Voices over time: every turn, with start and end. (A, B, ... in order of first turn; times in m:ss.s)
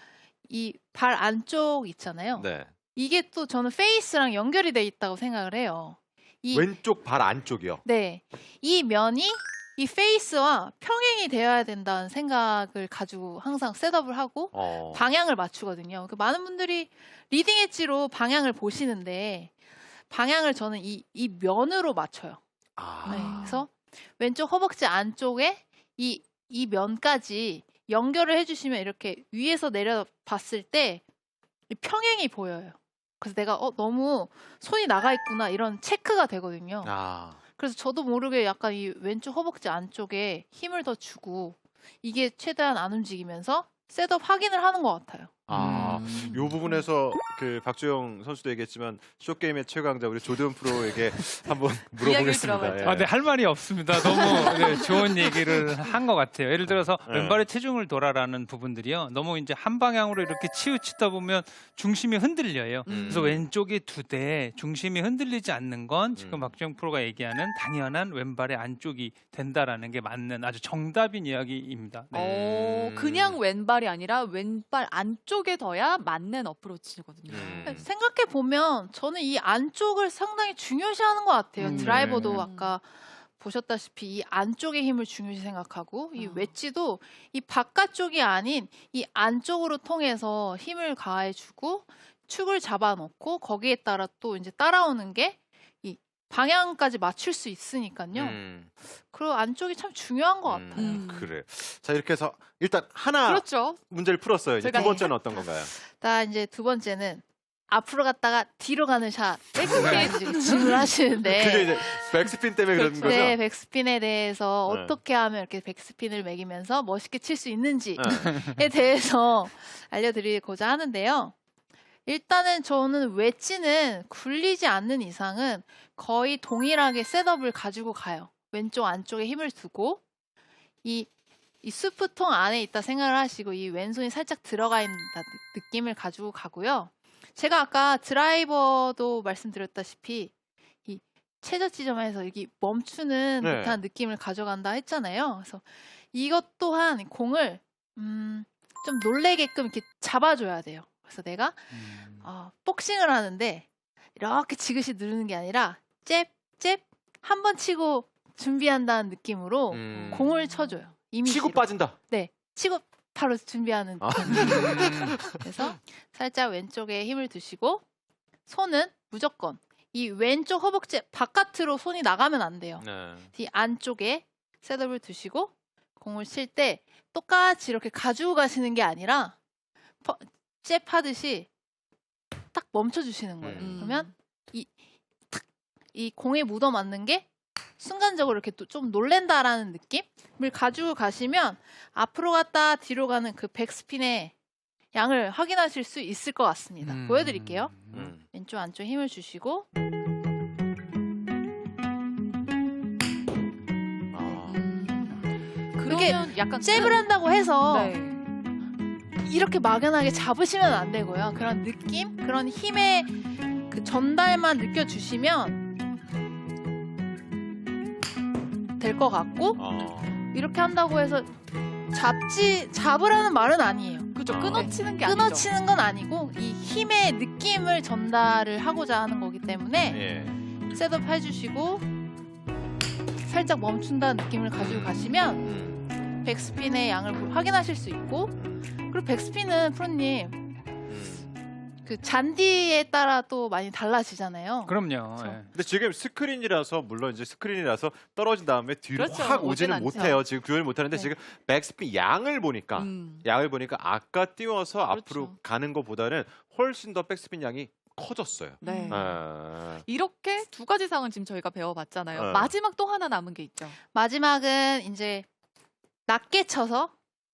0:00.5-0:06.7 A
0:02.4-0:02.7 B
0:06.5-0:07.8 B
0:07.8-0:19.5 A
0:14.5-0:15.1 B
0:20.1-0:22.4 A
0:22.8-0:23.6 B
0:23.1-0:23.6 C
0:23.1-0:31.0 A
0:31.7-0:36.9 A
0:36.8-0:37.4 B
0:37.6-0:45.4 A
0:45.5-0:53.1 B
0:45.5-0:46.5 D
0:45.9-0:46.4 C
0:52.0-0:53.0 C
0:52.8-1:12.2 D
0:53.9-0:55.7 B
0:56.7-0:57.4 B
1:02.9-1:03.4 C
1:02.9-1:03.5 B
1:06.2-1:06.5 B
1:12.1-1:13.4 B
1:12.1-1:17.8 C
1:17.3-1:17.9 B
1:17.6-1:38.4 A
1:21.6-1:22.7 C
1:21.6-1:22.5 D
1:26.2-1:26.5 C
1:38.1-1:38.7 B
1:39.1-1:41.0 A
1:40.5-1:45.7 B
1:40.8-1:41.3 C
1:43.2-1:43.8 C
1:44.6-1:45.5 C
1:44.7-1:45.1 A
1:45.7-1:52.2 A
1:49.6-1:50.9 C
1:49.8-1:50.1 D
1:51.2-1:53.4 B
1:52.8-1:53.3 C
1:53.0-2:01.4 A
1:54.7-1:55.0 B
1:58.0-1:58.3 B
2:02.1-2:10.0 A
2:10.8-2:11.1 A
2:11.6-2:20.3 A
2:20.9-2:47.8 A
2:23.4-2:23.8 B
2:31.7-2:32.2 D
2:39.7-2:40.3 B
2:39.9-2:40.2 D
2:40.5-2:40.8 C
2:41.2-2:42.0 B
2:44.0-2:45.4 B
2:44.4-2:45.2 D
2:48.5-2:59.4 A
2:52.8-2:53.3 B
3:00.0-3:01.5 A
3:02.5-3:04.7 A
3:03.4-3:03.8 B
3:03.6-3:04.1 C
3:05.3-3:07.3 A
3:07.8-3:14.3 A
3:14.9-3:17.7 A
3:16.8-3:18.1 D
3:17.9-3:18.2 B
3:18.3-3:19.7 A
3:24.1-3:24.6 B
3:24.3-3:28.2 C
3:25.8-3:27.9 A
3:29.2-3:33.2 A
3:33.7-3:35.6 A
3:38.8-3:39.6 A
3:39.6-3:40.2 B
3:40.3-3:41.3 A
3:41.9-3:50.0 A
3:44.2-3:45.5 C
3:44.3-3:44.7 B
3:49.9-3:50.4 B
3:50.7-3:51.9 A
3:53.3-3:55.5 A
3:54.6-3:55.9 B
3:56.2-3:58.4 A
3:58.4-3:58.6 B
3:58.9-4:00.4 A
4:00.9-4:01.3 B
4:01.8-4:05.4 A
4:04.6-4:05.5 D
4:05.5-4:19.8 B
4:09.0-4:10.2 C
4:12.8-4:13.3 C
4:14.9-4:15.4 C
4:18.6-4:23.8 C
4:18.7-4:19.0 A
4:22.1-4:22.5 B
4:23.9-4:25.3 A
4:26.1-4:26.9 A